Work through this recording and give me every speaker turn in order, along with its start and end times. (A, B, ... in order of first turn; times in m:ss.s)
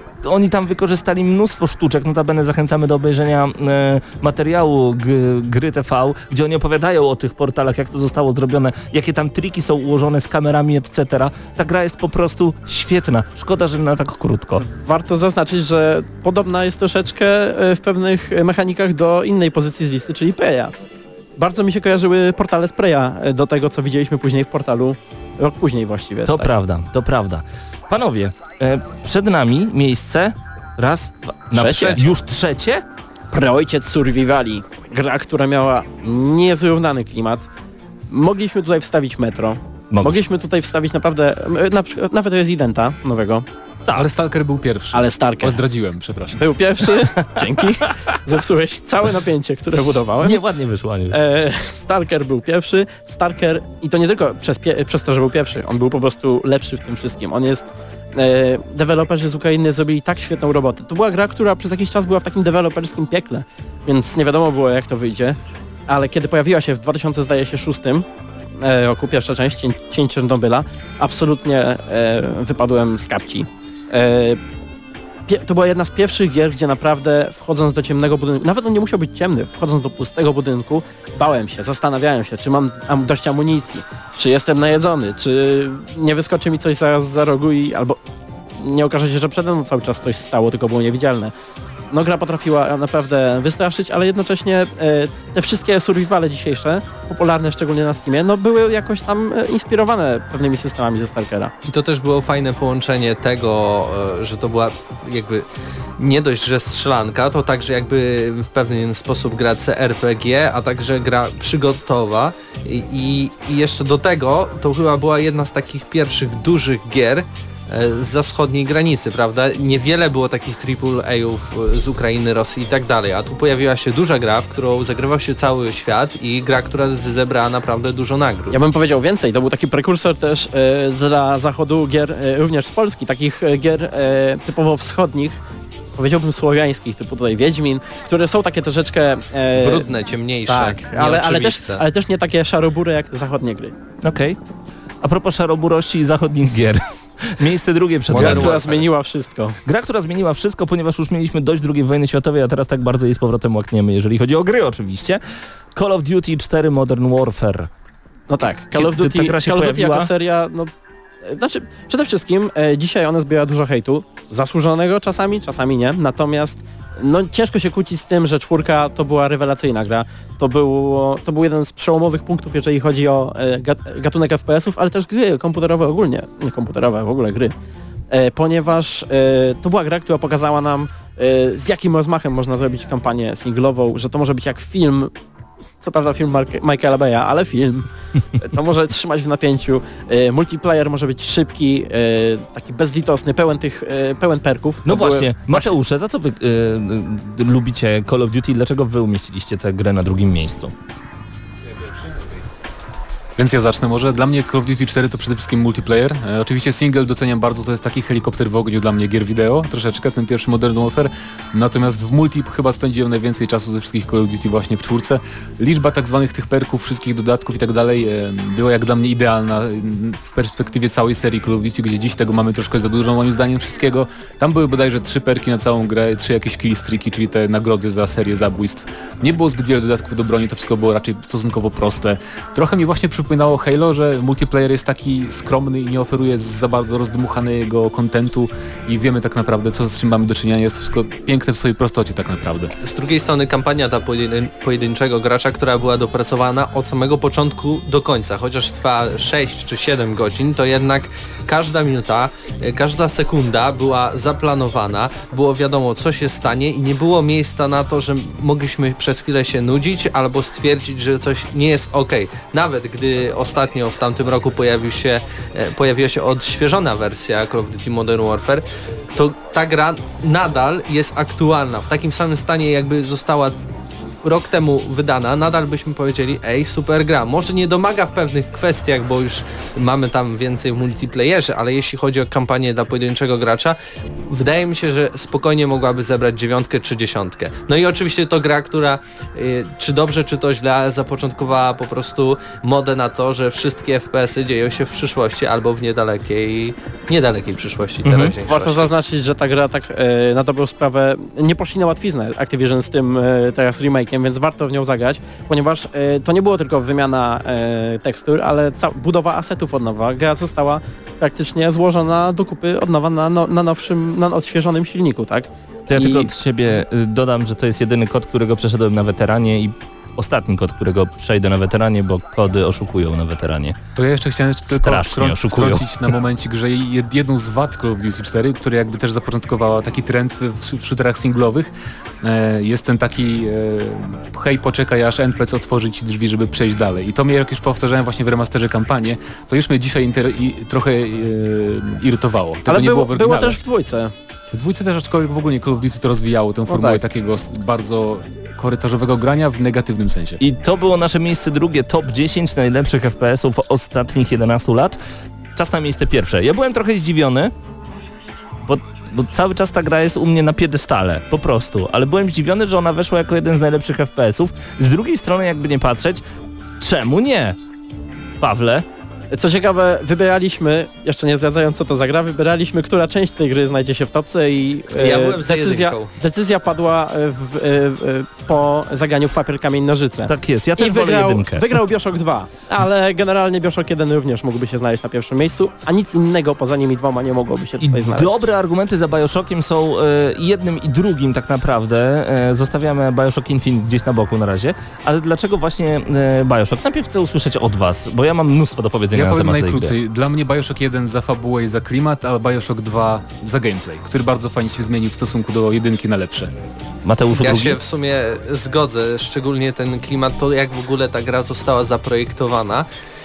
0:00.2-0:14.6 A
0:14.6-0:20.7 B
0:21.4-0:26.5 B
0:26.3-0:32.8 A
0:31.5-0:32.0 B
0:33.3-0:37.4 B
0:38.1-0:43.4 B
0:39.9-0:40.2 A
0:43.9-0:46.4 C
0:44.9-0:45.6 B
0:46.3-0:50.4 B
0:49.8-0:51.2 A
0:51.1-1:08.1 B
1:08.6-1:14.4 B
1:15.3-1:28.0 B
1:28.6-1:31.3 B
1:31.9-1:41.5 B
1:41.6-1:45.4 D
1:46.0-2:08.6 D
2:08.5-2:15.4 B
2:16.0-2:19.9 B
2:19.5-2:21.8 D
2:20.5-2:23.7 B
2:24.0-2:24.4 A
2:25.0-2:28.6 A
2:28.1-2:28.9 D
2:28.1-2:29.6 B
2:29.6-2:35.2 A
2:35.8-2:37.7 A
2:38.3-2:40.7 B
2:38.8-2:40.1 A
2:41.2-2:57.5 B
2:58.1-3:05.1 B
3:05.8-3:15.7 B
3:14.9-3:20.7 A
3:21.8-3:22.1 C
3:23.4-4:02.7 C
4:02.8-4:33.6 D
4:34.2-4:58.9 D
4:58.0-4:58.3 A
4:58.4-5:16.3 B
5:15.9-5:23.8 A
5:24.0-5:31.7 C
5:24.7-5:25.9 A
5:32.2-5:43.6 C
5:42.7-5:44.1 B
5:44.5-5:50.4 C
5:46.7-5:47.0 B
5:50.4-5:55.0 A
5:55.6-5:57.5 A
5:58.6-6:06.2 A
6:06.8-6:07.6 A
6:08.4-6:08.9 A
6:09.3-6:28.4 B
6:14.9-6:16.1 D
6:20.3-6:21.7 A
6:27.8-6:39.9 A
6:39.1-6:46.5 C
6:47.0-6:47.8 A
6:47.4-6:52.9 D